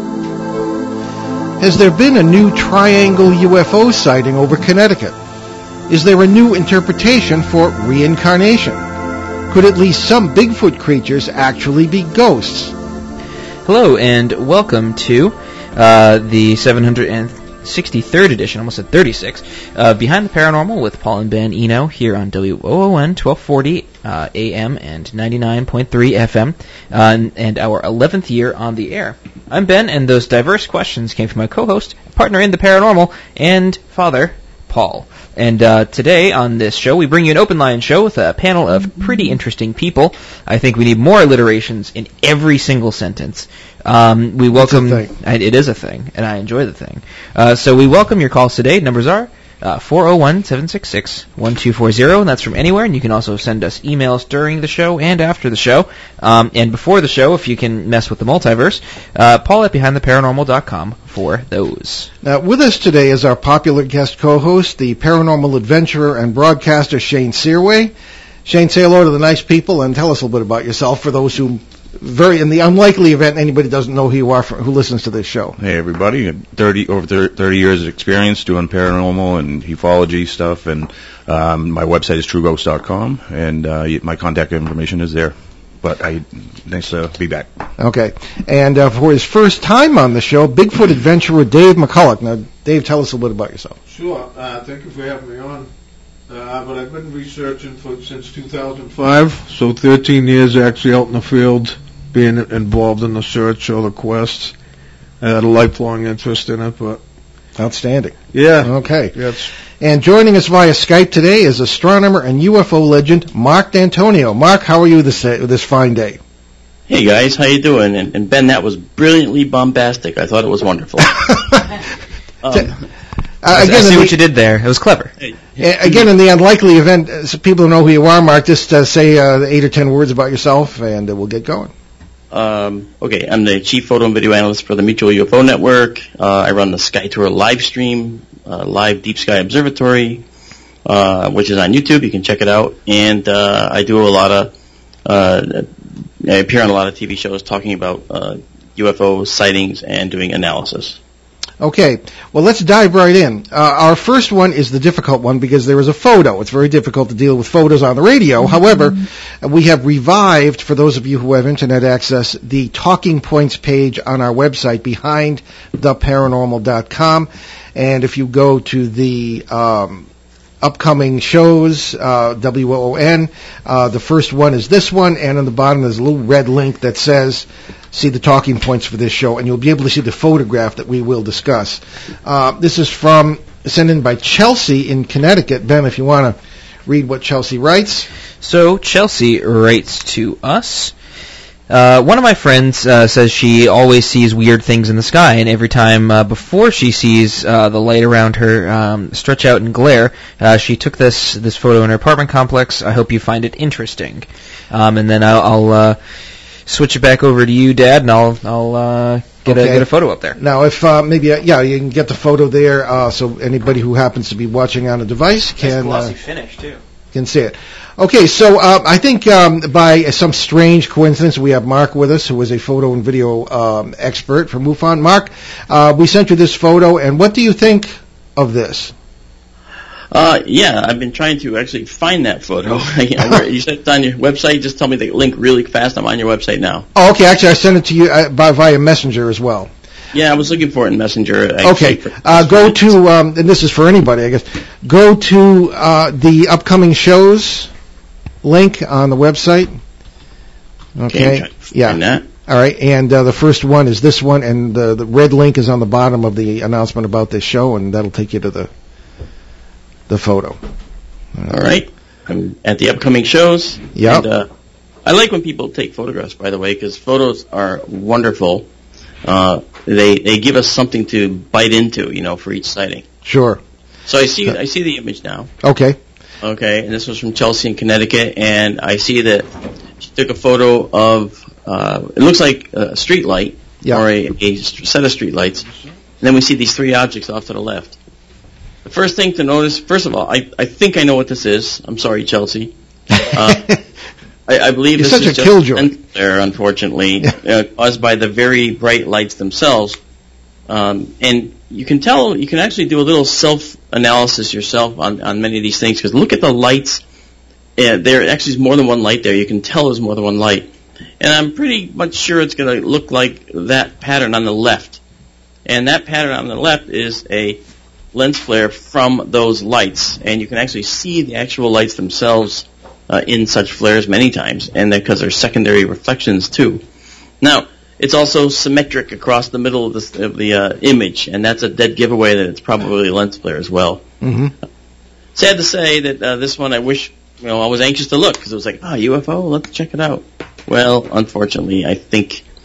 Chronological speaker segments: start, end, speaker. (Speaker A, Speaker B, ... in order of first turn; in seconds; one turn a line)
Speaker A: 1.6-5.2
Speaker A: 5.9-8.8
Speaker A: 9.5-12.7
Speaker B: 13.7-62.1
Speaker A: 44.5-45.1
Speaker A: 62.2-67.9
Speaker A: 68.4-75.6
Speaker C: 75.6-87.6
Speaker A: 87.8-93.8
Speaker D: 93.9-95.7
Speaker D: 96.3-104.5
Speaker D: 105.2-107.0
Speaker A: 107.6-109.1
Speaker D: 108.3-109.5
Speaker A: 109.8-116.2
Speaker E: 116.9-121.5
Speaker E: 122.4-122.8
Speaker A: 123.4-124.2
Speaker B: 123.5-125.1
Speaker A: 125.6-131.7
Speaker E: 132.3-140.2
Speaker E: 140.8-144.5
Speaker E: 145.1-145.7
Speaker E: 146.2-151.0
Speaker A: 151.6-170.1
Speaker A: 170.6-188.1
Speaker B: 188.4-190.9
Speaker B: 191.7-206.0
Speaker B: 206.7-210.4
Speaker A: 209.4-216.1
Speaker B: 215.6-216.8
Speaker A: 217.1-228.9
Speaker E: 230.1-236.8
Speaker A: 236.9-239.7
Speaker E: 240.1-242.8
Speaker A: 241.6-247.7
Speaker A: 248.4-249.7
Speaker A: 251.0-258.7
Speaker E: 251.1-252.2
Speaker A: 260.1-260.6
Speaker E: 261.5-264.5
Speaker A: 263.9-264.2
Speaker E: 265.0-268.7
Speaker E: 269.2-273.0
Speaker A: 273.2-273.6
Speaker E: 274.1-275.5
Speaker A: 275.6-276.0
Speaker E: 276.4-279.5
Speaker E: 280.0-285.7
Speaker E: 286.2-288.0
Speaker E: 288.8-293.8
Speaker E: 294.5-300.0
Speaker A: 294.9-295.9
Speaker E: 300.7-307.0
Speaker E: 307.8-310.7
Speaker E: 311.2-315.0
Speaker E: 315.6-317.6
Speaker E: 318.1-326.8
Speaker E: 327.4-334.0
Speaker A: 334.2-334.5
Speaker E: 335.3-342.4